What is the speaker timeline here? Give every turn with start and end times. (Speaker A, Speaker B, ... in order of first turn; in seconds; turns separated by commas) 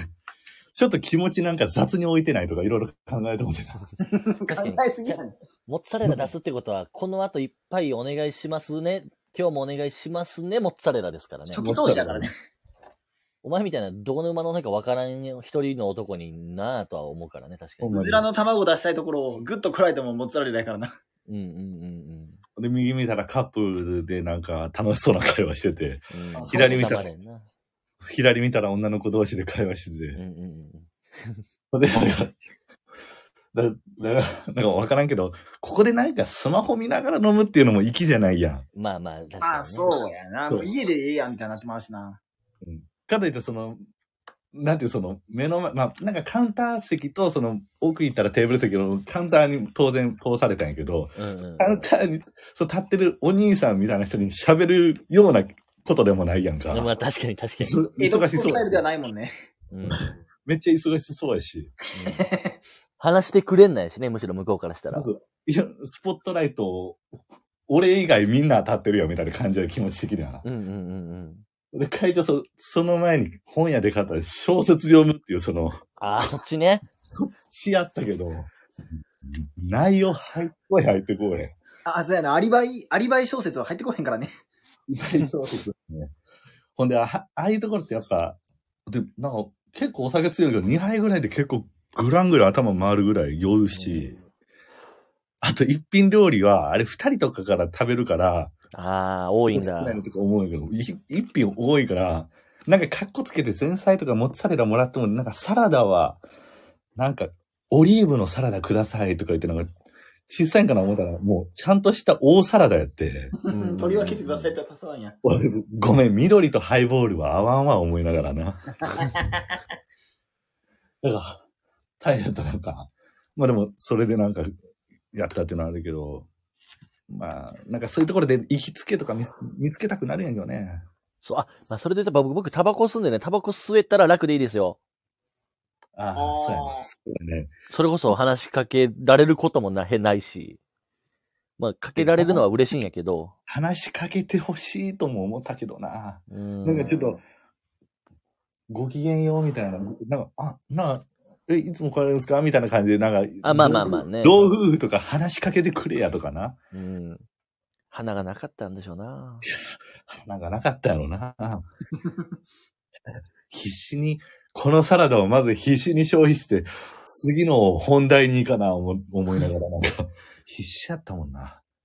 Speaker A: 0.7-3.8, Speaker B: 4.0-5.3, Speaker C: 4.5-11.6, Speaker A: 6.0-6.3, Speaker B: 11.5-12.3, Speaker A: 11.6-12.3, Speaker C: 13.4-17.9, Speaker A: 17.8-18.2, Speaker B: 17.9-20.9, Speaker C: 21.3-22.4, Speaker A: 22.6-27.1, Speaker C: 26.1-27.5, Speaker B: 26.3-27.0, Speaker A: 28.0-30.2, Speaker C: 30.1-31.4, Speaker A: 31.7-32.4, Speaker A: 33.5-38.6, Speaker C: 38.7-40.0, Speaker B: 39.4-42.2, Speaker A: 42.6-43.8, Speaker A: 44.5-56.9, Speaker C: 51.1-51.9, Speaker C: 56.7-57.8, Speaker A: 57.6-58.8, Speaker B: 58.0-59.3, Speaker C: 59.7-60.1, Speaker A: 59.8-61.7, Speaker C: 61.9-62.3, Speaker B: 62.0-62.6, Speaker C: 63.0-65.1, Speaker A: 64.9-67.0, Speaker A: 67.7-70.4, Speaker C: 70.4-71.4, Speaker A: 71.7-75.8, Speaker C: 76.0-76.8, Speaker A: 77.1-81.5, Speaker B: 81.8-84.3, Speaker A: 84.9-86.1, Speaker A: 86.8-94.2, Speaker C: 93.7-94.2, Speaker A: 95.4-98.5, Speaker C: 98.7-100.0, Speaker A: 99.5-106.2, Speaker A: 107.0-109.7, Speaker A: 110.3-114.6, Speaker B: 113.4-115.2, Speaker C: 113.5-113.8, Speaker A: 115.2-119.0, Speaker B: 118.9-119.3, Speaker A: 121.0-121.4, Speaker A: 122.0-124.5, Speaker A: 125.1-126.3, Speaker A: 127.1-130.8, Speaker C: 131.2-134.8, Speaker A: 135.9-137.5, Speaker B: 136.1-136.9, Speaker C: 137.7-140.6, Speaker C: 141.6-143.3, Speaker A: 142.0-142.5, Speaker A: 143.5-147.2, Speaker C: 146.3-147.0, Speaker A: 148.7-156.6, Speaker C: 153.4-154.5, Speaker C: 156.7-157.2, Speaker C: 157.9-159.4, Speaker A: 160.2-161.6, Speaker A: 163.5-171.6